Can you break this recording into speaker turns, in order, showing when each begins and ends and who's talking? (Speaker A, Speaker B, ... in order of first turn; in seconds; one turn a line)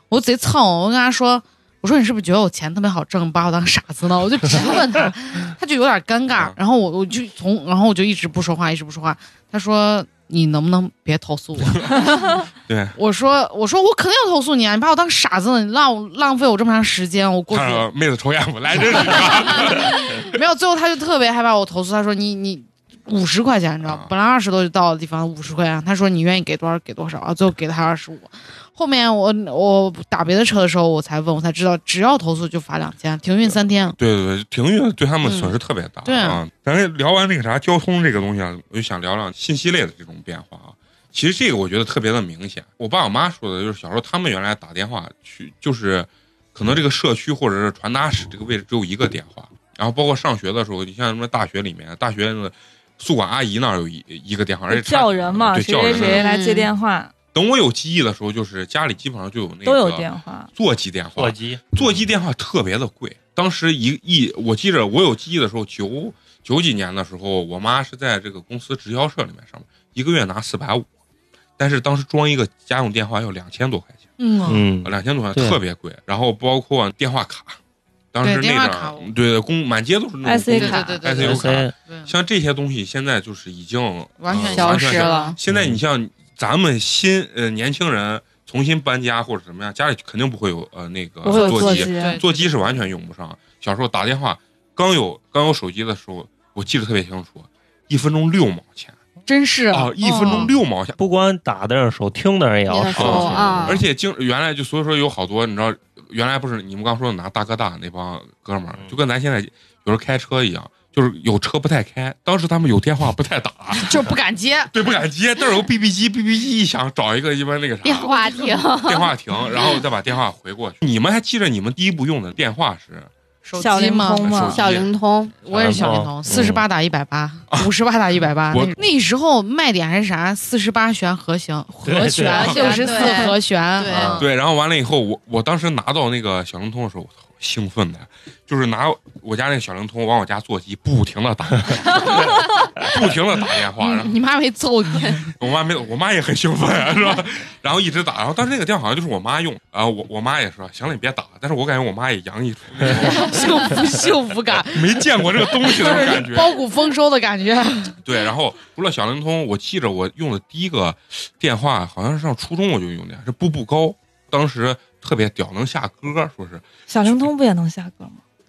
Speaker A: 0.1-12.1
Speaker B: 12.7-13.0
Speaker A: 13.0-17.9
Speaker B: 17.5-20.3
Speaker A: 18.7-34.0
Speaker B: 23.9-24.1
Speaker B: 33.5-56.2
Speaker A: 35.2-35.5
Speaker A: 36.0-36.4
Speaker C: 54.7-57.1
Speaker D: 56.0-56.7
Speaker B: 57.3-70.9
Speaker C: 59.6-60.5
Speaker E: 61.2-62.0
Speaker B: 71.6-74.1
Speaker A: 74.2-74.7
Speaker E: 74.5-75.6
Speaker B: 74.8-77.6
Speaker B: 78.1-99.0
Speaker A: 78.2-79.1
Speaker C: 80.2-81.0
Speaker A: 80.5-82.1
Speaker E: 81.2-81.7
Speaker A: 84.2-85.4
Speaker D: 84.4-85.4
Speaker E: 85.5-85.8
Speaker C: 91.2-92.2
Speaker A: 91.3-92.7
Speaker A: 99.3-100.5
Speaker B: 99.7-101.0
Speaker E: 101.0-103.8
Speaker D: 102.7-103.8
Speaker B: 103.0-114.1
Speaker A: 113.7-114.7
Speaker B: 114.7-118.1
Speaker D: 117.8-119.7
Speaker A: 118.0-118.8
Speaker B: 118.8-123.1
Speaker A: 123.4-124.4
Speaker C: 123.6-124.6
Speaker B: 124.2-124.9
Speaker D: 124.4-125.3
Speaker A: 125.4-134.3
Speaker E: 125.5-126.7
Speaker B: 128.5-128.8
Speaker E: 131.8-132.5
Speaker D: 132.2-134.2
Speaker C: 132.6-133.3
Speaker B: 134.0-144.2
Speaker A: 143.8-145.3
Speaker B: 145.3-153.7
Speaker A: 152.9-158.0
Speaker B: 154.7-156.6
Speaker B: 158.0-167.3
Speaker C: 166.9-168.2